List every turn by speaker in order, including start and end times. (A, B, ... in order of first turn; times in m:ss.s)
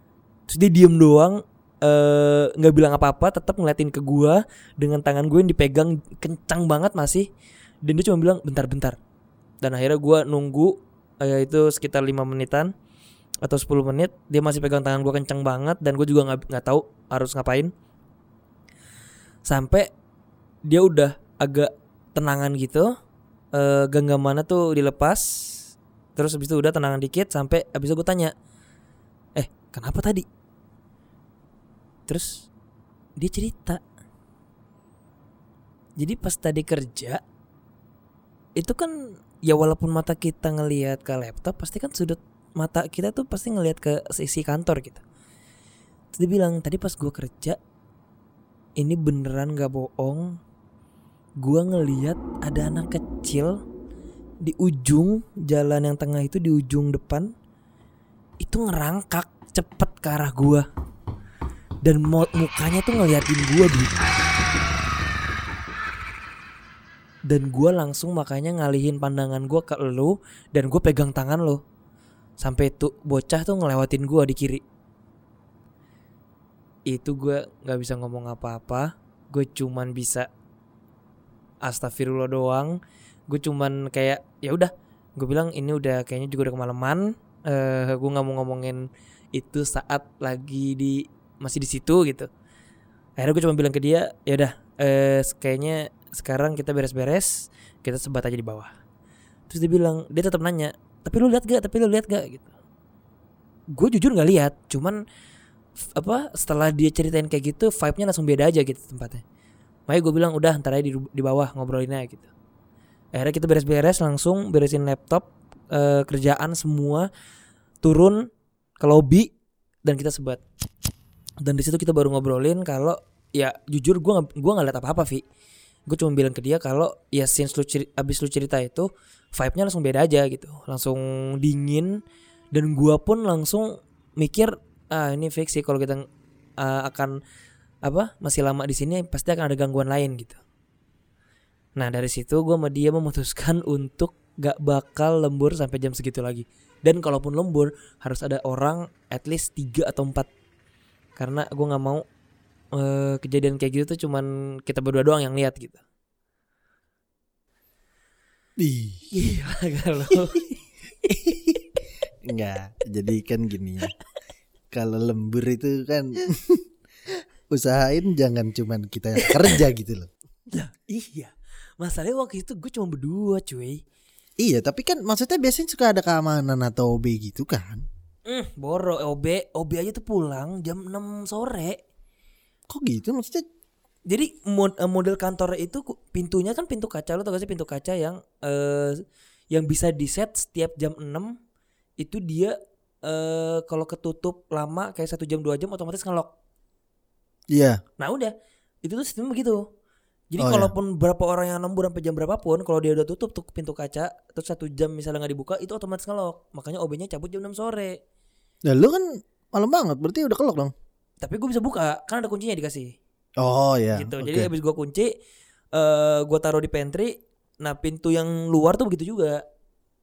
0:00.5-0:07.3 A
0:07.8-0:09.0 A
0:09.6-0:12.7 A
0:13.4-0:17.7 A
0:19.4-0:19.9 A
0:20.7-0:22.9 A
0:23.5-0:25.6 A
0:26.2-0:28.3 A
0:29.4-0:30.3 A
0:32.1-0:32.5 A
0:33.2-0:33.8 A
0:36.0-0:37.2 A
0:38.6-0:45.0 A
0:46.1-0:47.6 A
0:48.8-0:50.4 A
0:51.4-0:53.6 A
0:54.4-0:57.3 A
0:58.4-1:00.6 A
1:01.8-1:04.1 A
1:07.3-1:11.6 A
1:12.4-1:14.6 A
1:16.9-1:20.3 A
1:21.6-1:22.8 A
1:23.3-1:32.3 A
1:33.2-1:38.7 A
1:39.5-1:42.5 A
1:43.7-1:45.0 A
1:46.0-1:49.2 A
1:49.9-1:52.3 A
1:53.1-1:57.1 A
1:57.8-1:58.2 A
1:58.8-1:59.3 A
1:59.8-2:00.4 A
2:01.4-2:05.2 A
2:05.9-2:12.0 A
2:12.5-2:16.0 A
2:16.6-2:17.2 A
2:17.8-2:20.4 A
2:21.8-2:30.3 A
2:31.2-2:32.0 A
2:32.8-2:35.8 A
2:38.6-2:39.2 B
2:39.1-2:41.6 A
2:42.2-2:43.9 B
2:44.7-2:46.6 B
2:47.5-2:50.1 B
2:49.2-2:49.6 A
2:50.5-2:53.8 A
2:54.4-2:57.8 B
2:58.3-3:01.8 A
3:02.7-3:03.4 B
3:04.1-3:11.3 A
3:12.0-3:16.3 A
3:17.5-3:17.8 B
3:18.0-3:18.3 A
3:18.8-3:19.6 A
3:20.3-3:28.0 A
3:20.4-3:20.7 B
3:28.6-3:30.7 B
3:31.2-3:33.0 A
3:33.4-3:34.5 B
3:33.9-3:35.1 A
3:35.7-3:39.4 A